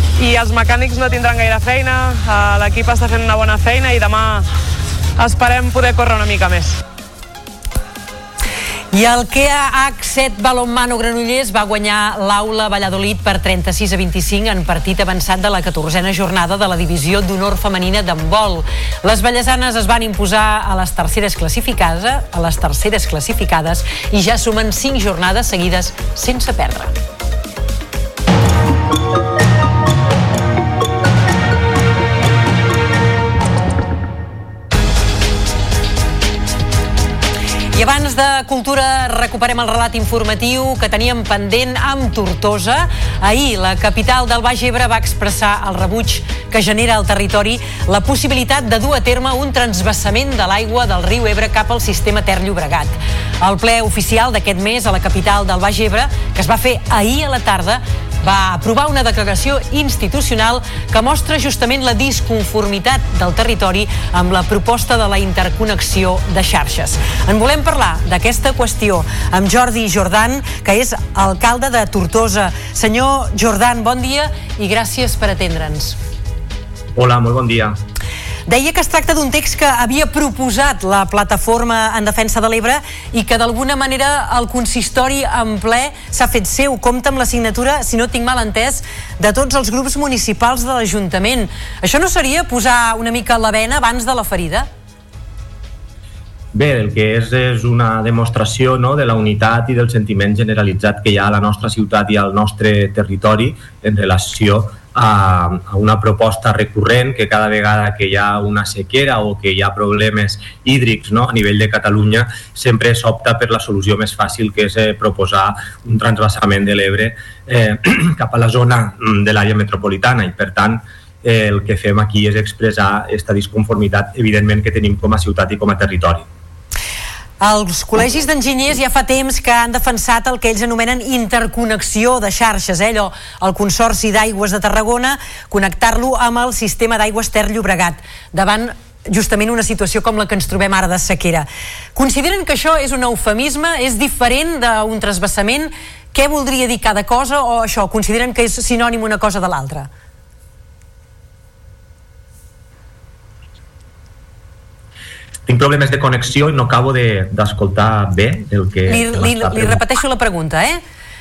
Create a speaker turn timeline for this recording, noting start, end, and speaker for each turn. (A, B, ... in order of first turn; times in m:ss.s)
0:00.2-0:04.5 A
0:05.2-0:06.8 A
0:08.9-0:26.9 B
0:37.7-1:16.0 B
1:17.0-1:17.8 C
1:18.5-1:34.7 B
1:36.6-2:06.3 C
2:07.4-2:29.9 B
2:35.5-2:39.8 C
2:38.9-2:40.8 B